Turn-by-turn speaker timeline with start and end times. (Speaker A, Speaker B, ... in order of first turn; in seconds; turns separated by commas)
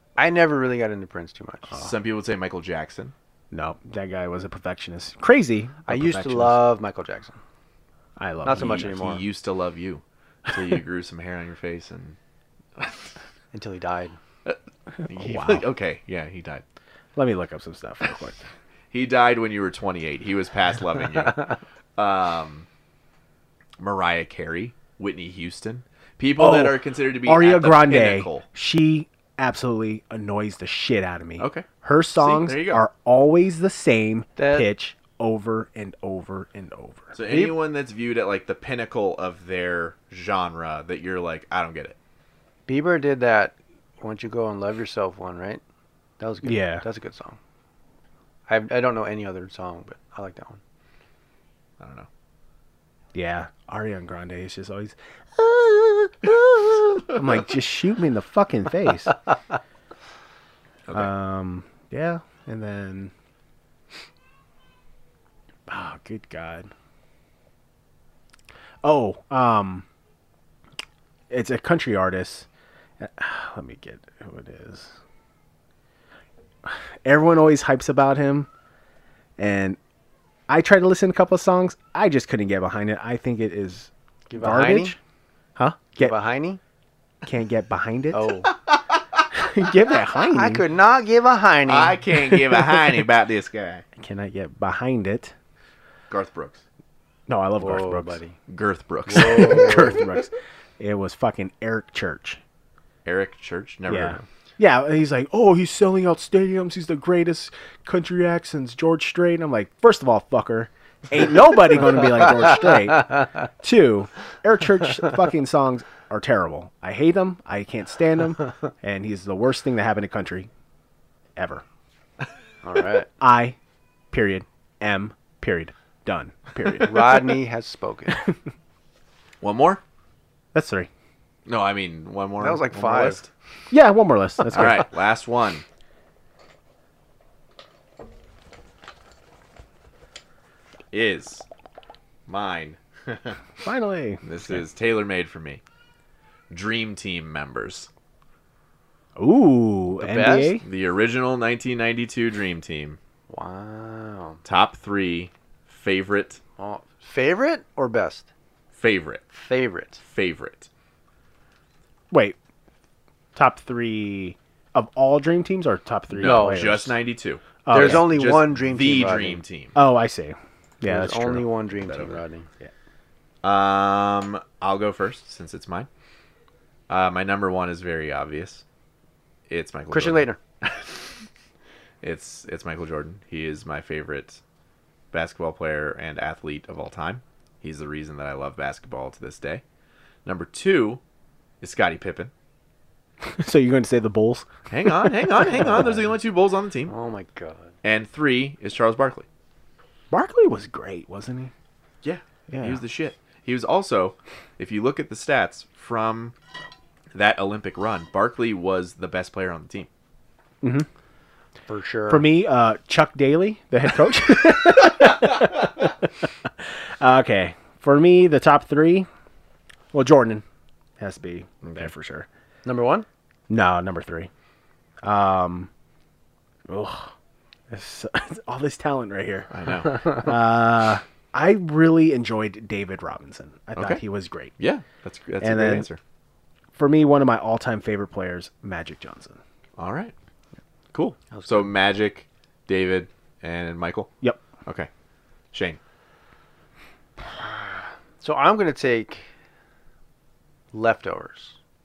Speaker A: 0.2-1.8, Speaker B: 1.7-3.1, Speaker C: 3.5-6.6, Speaker A: 5.8-7.4, Speaker C: 8.2-8.9, Speaker A: 8.4-9.2, Speaker B: 8.6-12.2, Speaker B: 12.8-13.1, Speaker A: 13.5-14.2, Speaker B: 14.4-16.6, Speaker C: 15.0-15.6, Speaker C: 17.1-18.4, Speaker B: 18.9-22.6, Speaker B: 23.8-28.4, Speaker C: 26.4-37.1, Speaker B: 31.4-32.8, Speaker A: 34.4-34.7, Speaker B: 37.1-42.0, Speaker A: 37.2-37.5, Speaker A: 42.7-45.6, Speaker A: 46.2-47.4, Speaker C: 46.4-46.8, Speaker A: 48.5-50.6, Speaker B: 51.8-52.1, Speaker C: 53.1-59.2, Speaker C: 60.9-63.1, Speaker C: 65.7-66.7, Speaker C: 68.8-69.8, Speaker C: 71.3-72.5, Speaker C: 73.0-74.9, Speaker C: 76.6-78.5, Speaker C: 79.4-79.8, Speaker C: 80.5-85.0, Speaker A: 84.3-84.9, Speaker C: 85.5-86.2, Speaker A: 86.0-86.6, Speaker C: 87.2-88.4, Speaker A: 88.1-88.5, Speaker C: 89.3-90.6, Speaker A: 90.3-92.0, Speaker B: 91.7-93.8, Speaker C: 92.3-92.8, Speaker C: 94.0-95.3, Speaker B: 96.1-96.6, Speaker C: 97.3-98.2, Speaker A: 97.6-98.3, Speaker B: 98.5-100.0, Speaker A: 99.1-100.0, Speaker C: 99.1-102.4, Speaker B: 103.0-104.2, Speaker C: 103.9-120.5, Speaker C: 121.3-121.6, Speaker A: 122.6-123.1, Speaker C: 123.2-123.5, Speaker C: 124.1-127.3, Speaker A: 126.8-128.2, Speaker B: 129.4-129.8, Speaker C: 130.5-130.9, Speaker B: 131.5-133.3, Speaker A: 132.4-133.2, Speaker C: 133.7-134.9, Speaker B: 134.5-135.6, Speaker B: 140.9-141.4, Speaker B: 142.3-143.4, Speaker C: 143.6-144.2, Speaker B: 144.2-145.6, Speaker B: 146.5-147.9, Speaker C: 149.2-150.6, Speaker A: 150.0-150.6, Speaker B: 150.6-153.0, Speaker A: 153.3-154.4, Speaker B: 154.4-156.4, Speaker A: 156.6-158.3, Speaker B: 158.7-159.2, Speaker A: 159.3-160.0, Speaker B: 160.0-160.7, Speaker C: 162.1-162.4, Speaker C: 163.3-166.9, Speaker B: 166.1-169.8, Speaker A: 166.2-166.8, Speaker C: 167.6-168.3, Speaker A: 167.7-169.4, Speaker C: 169.7-171.5, Speaker A: 170.8-172.5, Speaker B: 171.9-172.2, Speaker B: 173.4-175.9, Speaker B: 176.9-178.6, Speaker B: 179.5-181.0, Speaker A: 179.9-180.4, Speaker B: 182.0-184.4, Speaker B: 185.1-189.6, Speaker B: 190.2-191.0, Speaker B: 191.6-192.3, Speaker C: 193.3-196.1, Speaker B: 194.7-196.9, Speaker A: 196.9-197.7, Speaker B: 197.8-199.2, Speaker C: 200.1-201.5, Speaker B: 202.0-206.3, Speaker C: 202.5-202.8, Speaker B: 207.1-209.9, Speaker C: 210.6-210.9, Speaker A: 211.7-212.3, Speaker C: 212.1-219.1, Speaker C: 219.9-220.4, Speaker C: 221.0-222.3, Speaker B: 221.6-221.9, Speaker A: 222.6-223.1, Speaker C: 223.5-224.3, Speaker C: 225.0-225.7, Speaker C: 226.7-227.1, Speaker C: 227.7-234.5, Speaker B: 229.5-230.3, Speaker B: 233.8-234.0, Speaker B: 234.6-236.0, Speaker C: 235.4-235.9, Speaker C: 236.7-239.4, Speaker B: 239.8-240.1, Speaker B: 240.9-244.1, Speaker A: 241.3-241.7, Speaker B: 245.5-245.8, Speaker A: 248.2-249.3, Speaker A: 250.7-251.6